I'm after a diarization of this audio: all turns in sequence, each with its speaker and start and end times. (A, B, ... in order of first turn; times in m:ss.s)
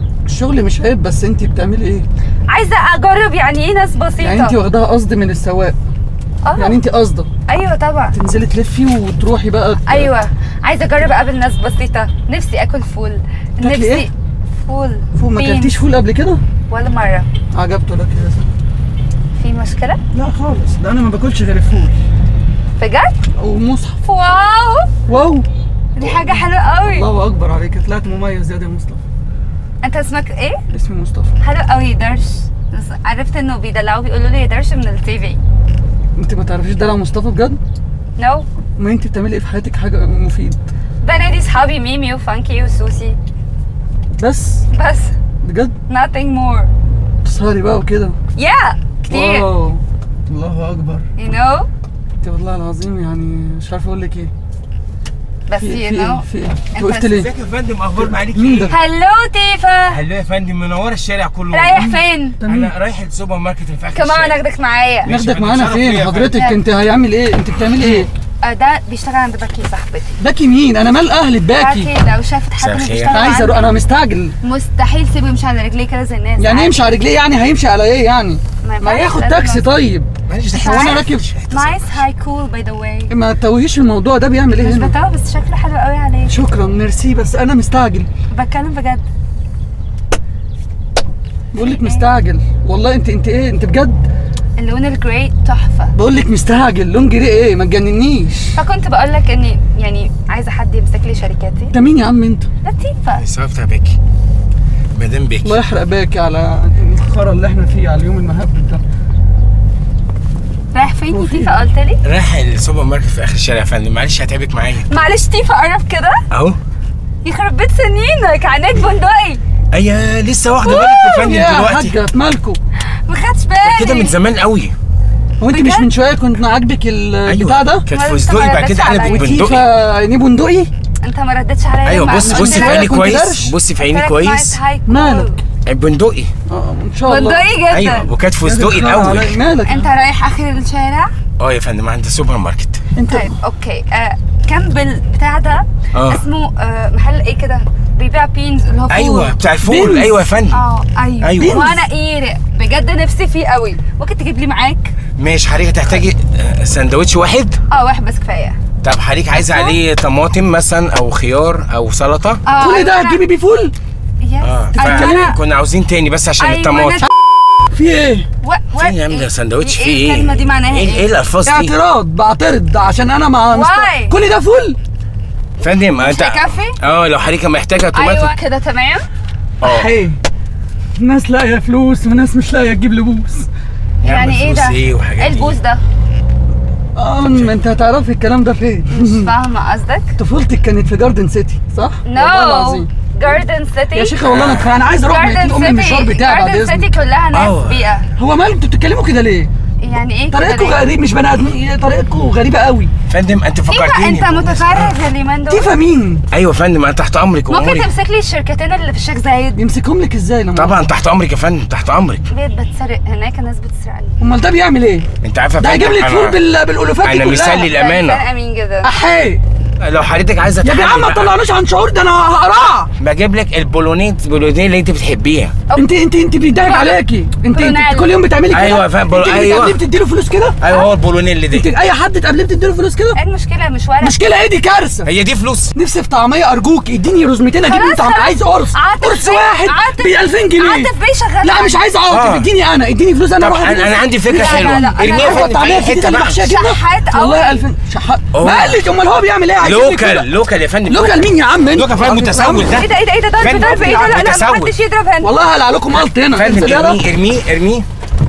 0:00.3-0:02.0 A
0:02.5-0:04.6 B
0:04.2-0:05.7 A
0:06.4-0:06.8 B
0:06.6-0:07.3 A
0:07.5-0:08.2 B
0:08.1-0:10.1 A
0:09.9-0:14.1 B
0:13.6-0:14.1 A
0:14.6-0:15.8 B
0:15.2-0:16.4 A
0:16.7-0:17.3 B
0:17.5-0:18.5 A
0:19.4-0:20.0 B
0:20.1-0:22.0 A
0:22.8-0:23.1 B
0:23.4-0:24.0 A
0:24.0-0:24.9 B
0:25.1-0:25.5 A
0:25.9-0:27.1 B
0:26.0-0:29.0 A
0:29.8-0:30.6 B
0:30.7-0:31.3 A
0:31.4-0:35.4 B
0:36.2-0:37.6 A
0:38.2-0:38.4 B
0:38.8-0:40.6 A
0:41.0-0:43.2 B
0:44.2-0:44.6 A
0:44.7-0:45.1 B
0:45.4-0:45.8 A
0:45.9-0:46.7 B
0:47.2-0:48.2 A
0:48.4-0:49.5 B
0:49.1-0:51.1 A
0:51.2-0:51.7 B
0:52.2-0:54.3 A
0:55.5-0:57.2 B
0:55.6-0:57.3 A
0:57.1-0:58.8 C
0:58.0-0:58.7 A
0:58.7-1:00.0 B
0:59.9-1:01.9 C
1:01.5-1:02.4 B
1:01.8-1:02.7 A
1:02.4-1:04.4 C
1:03.9-1:05.1 B
1:05.0-1:06.5 C
1:05.0-1:08.1 A
1:06.3-1:06.6 B
1:08.4-1:10.2 B
1:10.2-1:11.9 A
1:11.5-1:13.8 B
1:12.6-1:13.3 C
1:13.1-1:14.3 A
1:14.4-1:16.9 B
1:16.4-1:21.3 A
1:18.6-1:19.7 B
1:20.3-1:22.0 C
1:20.5-1:23.1 B
1:23.1-1:24.9 A
1:24.6-1:26.4 B
1:26.3-1:28.1 A
1:28.3-1:29.0 B
1:31.5-1:34.0 A
1:31.6-1:32.1 B
1:34.6-1:35.9 B
1:35.9-1:38.6 A
1:38.6-1:41.7 B
1:41.7-1:42.5 A
1:42.6-1:43.2 B
1:43.2-1:44.0 C
1:44.9-1:45.6 C
1:45.4-1:48.8 A
1:50.7-1:52.0 B
1:51.1-1:51.7 A
1:52.0-1:54.9 C
1:54.9-1:56.2 B
1:56.3-1:56.6 C
1:57.2-1:59.4 B
1:59.7-2:02.0 C
2:00.6-2:01.2 B
2:00.7-2:02.6 A
2:03.1-2:04.1 B
2:03.6-2:04.7 C
2:05.4-2:07.9 A
2:05.5-2:05.9 B
2:07.2-2:09.6 C
2:07.9-2:09.5 B
2:09.0-2:10.7 A
2:11.0-2:12.9 B
2:11.8-2:14.6 C
2:12.2-2:13.5 A
2:13.8-2:15.4 B
2:14.9-2:15.4 A
2:15.6-2:16.3 C
2:16.5-2:17.5 A
2:17.0-2:18.1 B
2:17.7-2:19.4 C
2:18.4-2:19.9 A
2:19.6-2:21.1 B
2:21.4-2:22.8 C
2:23.0-2:23.3 A
2:23.1-2:29.4 B
2:25.9-2:26.2 C
2:28.9-2:30.6 C
2:29.6-2:30.2 A
2:30.5-2:34.9 B
2:31.2-2:31.7 C
2:31.4-2:31.8 A
2:35.2-2:37.6 C
2:37.7-2:38.6 B
2:38.8-2:42.4 C
2:39.3-2:39.8 B
2:42.4-2:43.2 B
2:42.6-2:43.7 A
2:44.2-2:45.4 B
2:44.4-2:47.0 C
2:44.8-2:45.3 A
2:46.4-2:47.1 B
2:47.7-2:48.3 A
2:48.4-2:51.1 B
2:48.8-2:51.7 C
2:51.4-2:54.8 A
2:53.5-2:54.1 B
2:55.6-2:58.3 C
2:56.0-2:56.8 B
2:57.9-2:59.0 B
2:59.6-2:59.9 C
2:59.6-3:00.2 A
3:01.0-3:03.5 A
3:04.0-3:05.6 C
3:04.0-3:05.8 B
3:07.0-3:09.3 A
3:08.9-3:10.2 B
3:10.2-3:13.4 A
3:12.0-3:14.2 B
3:13.9-3:16.9 A
3:14.2-3:14.8 C
3:15.0-3:18.1 B
3:17.3-3:17.9 C
3:18.2-3:19.5 A
3:19.8-3:20.8 B
3:20.3-3:22.9 A
3:23.1-3:25.0 C
3:23.7-3:25.7 B
3:25.5-3:26.2 A
3:26.3-3:27.9 C
3:27.5-3:29.6 B
3:29.6-3:30.9 A
3:30.5-3:32.2 C
3:32.3-3:34.2 B
3:34.2-3:37.7 A
3:35.2-3:36.4 C
3:37.0-3:38.2 C
3:37.7-3:38.9 B
3:38.8-3:39.4 A
3:39.8-3:41.4 C
3:40.6-3:42.9 A
3:43.0-3:45.5 C
3:45.8-3:50.6 A
3:46.6-3:48.2 B
3:48.5-3:49.8 C
3:50.6-3:51.7 C
3:51.5-3:53.2 A
3:53.1-3:54.2 B
3:54.0-3:55.1 A
3:55.0-3:55.7 C
3:55.7-4:10.3 A
3:57.6-4:01.8 B
4:02.1-4:02.5 C
4:03.4-4:06.4 C
4:04.3-4:05.5 B
4:06.3-4:07.7 B
4:08.3-4:08.8 C
4:09.6-4:14.8 C
4:10.9-4:12.7 A
4:12.7-4:15.3 B
4:15.2-4:17.0 A
4:16.3-4:17.8 C